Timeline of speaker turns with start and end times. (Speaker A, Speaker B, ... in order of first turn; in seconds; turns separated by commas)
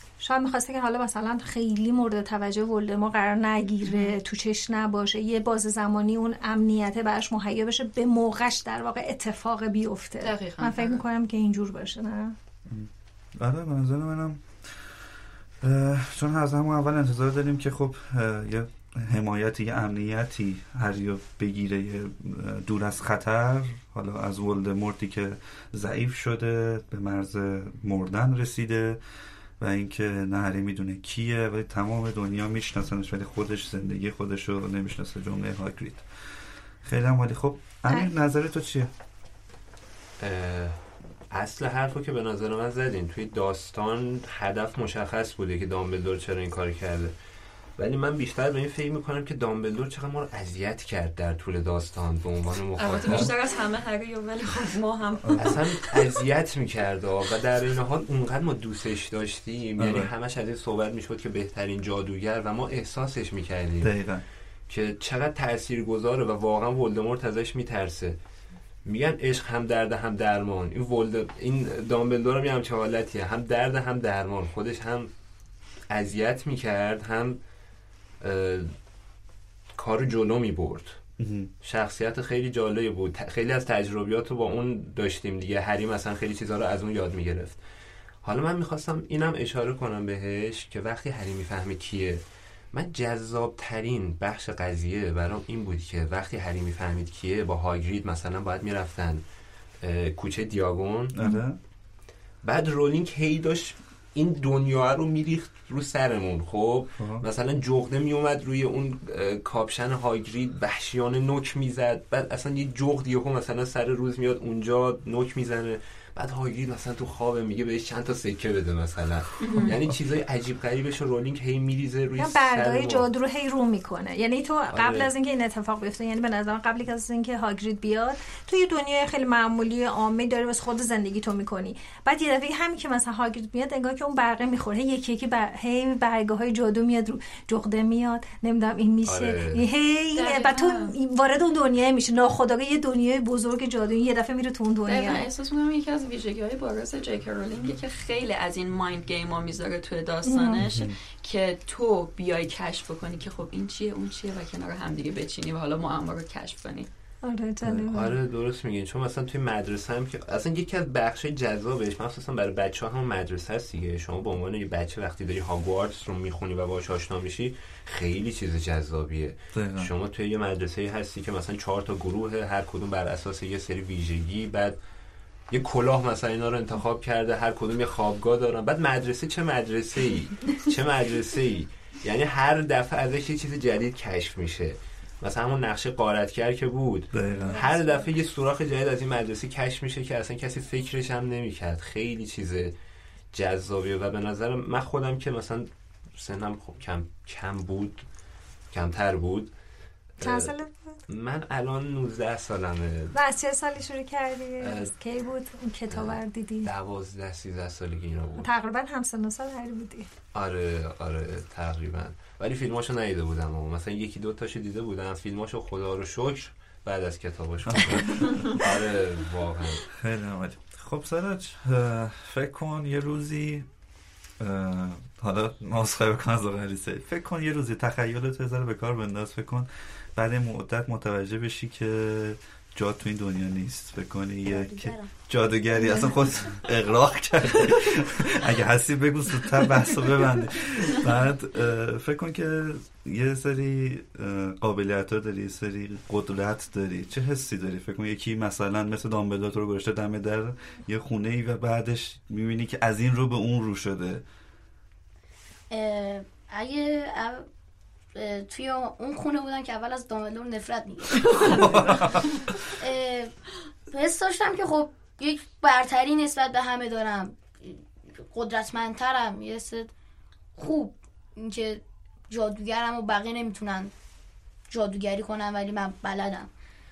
Speaker A: 0.2-12.4, Speaker B: 3.9-4.1, Speaker B: 10.2-11.0, Speaker C: 12.7-15.0, Speaker C: 15.6-29.0, Speaker C: 29.6-36.0, Speaker C: 36.8-38.9, Speaker D: 40.2-47.1, Speaker D: 47.8-53.3, Speaker B: 52.8-56.2, Speaker C: 55.3-55.5, Speaker D: 55.4-64.0, Speaker C: 59.8-60.1, Speaker C: 63.8-64.2, Speaker D: 64.7-68.2, Speaker D: 68.8-75.1, Speaker D: 75.9-77.4, Speaker D: 78.2-78.7, Speaker D: 79.8-81.0, Speaker C: 81.2-81.5, Speaker D: 81.6-87.6, Speaker D: 88.2-99.2, Speaker D: 99.8-101.1, Speaker C: 101.1-101.6, Speaker D: 102.4-123.1, Speaker C: 107.0-107.2, Speaker B: 119.4-119.8, Speaker A: 122.2-145.2, Speaker D: 124.7-125.1, Speaker D: 139.1-139.7, Speaker B: 140.2-140.9, Speaker B: 144.9-156.9, Speaker A: 150.2-150.6, Speaker C: 150.6-151.0, Speaker A: 157.2-158.2, Speaker D: 157.9-174.8, Speaker C: 169.6-169.9, Speaker D: 175.5-192.7, Speaker C: 187.1-187.7, Speaker D: 193.3-198.1, Speaker D: 198.7-199.6, Speaker D: 200.2-200.5, Speaker A: 200.2-201.0, Speaker D: 201.1-203.2, Speaker A: 203.1-206.7, Speaker D: 204.6-204.9, Speaker D: 205.9-208.5, Speaker A: 208.4-210.1, Speaker D: 210.3-219.9, Speaker C: 217.7-218.7, Speaker C: 219.9-223.7, Speaker C: 224.4-254.2, Speaker E: 234.5-235.1, Speaker A: 235.8-236.1, Speaker E: 255.7-257.5, Speaker E: 258.1-269.9, Speaker C: 261.4-262.6, Speaker B: 261.6-262.1, Speaker E: 270.6-273.9, Speaker E: 274.7-276.5